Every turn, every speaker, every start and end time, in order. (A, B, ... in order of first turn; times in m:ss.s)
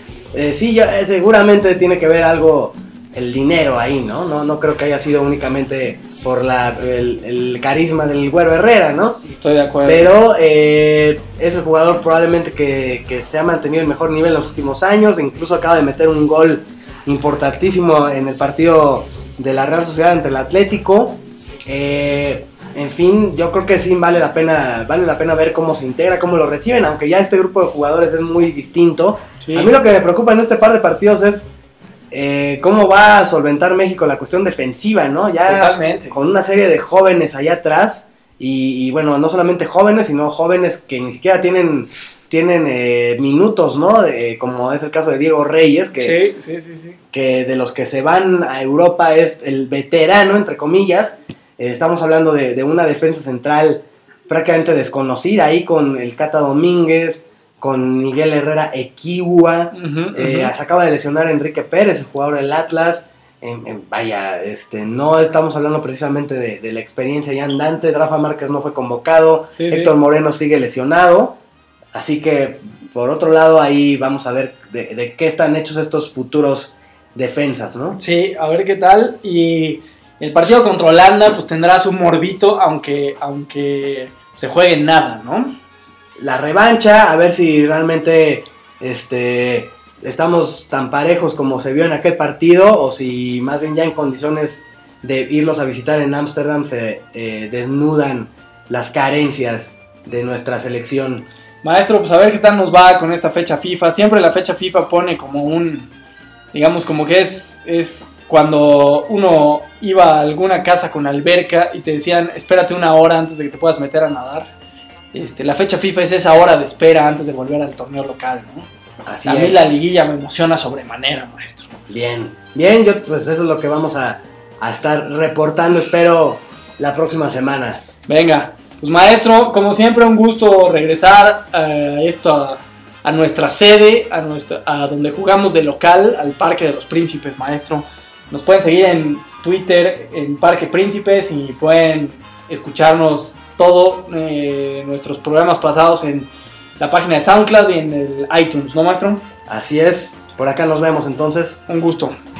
0:00.3-0:09.2 A
0:09.2-0:10.1 B
0:09.8-0:31.5 A
0:29.4-0:29.7 B
0:32.1-0:46.2 A
0:35.5-0:36.2 B
0:46.0-0:47.0 B
0:47.1-1:11.4 A
0:59.7-1:00.5 B
1:09.5-1:09.9 B
1:11.9-1:18.0 A
1:17.9-1:25.6 B
1:26.2-1:41.3 A
1:41.6-1:45.9 B
1:46.5-1:54.5 B
1:55.1-1:58.7 B
1:59.0-1:59.8 A
1:59.2-2:01.7 B
2:01.9-2:07.8 A
2:08.1-2:29.2 B
2:29.5-2:31.6 A
2:31.7-2:32.2 B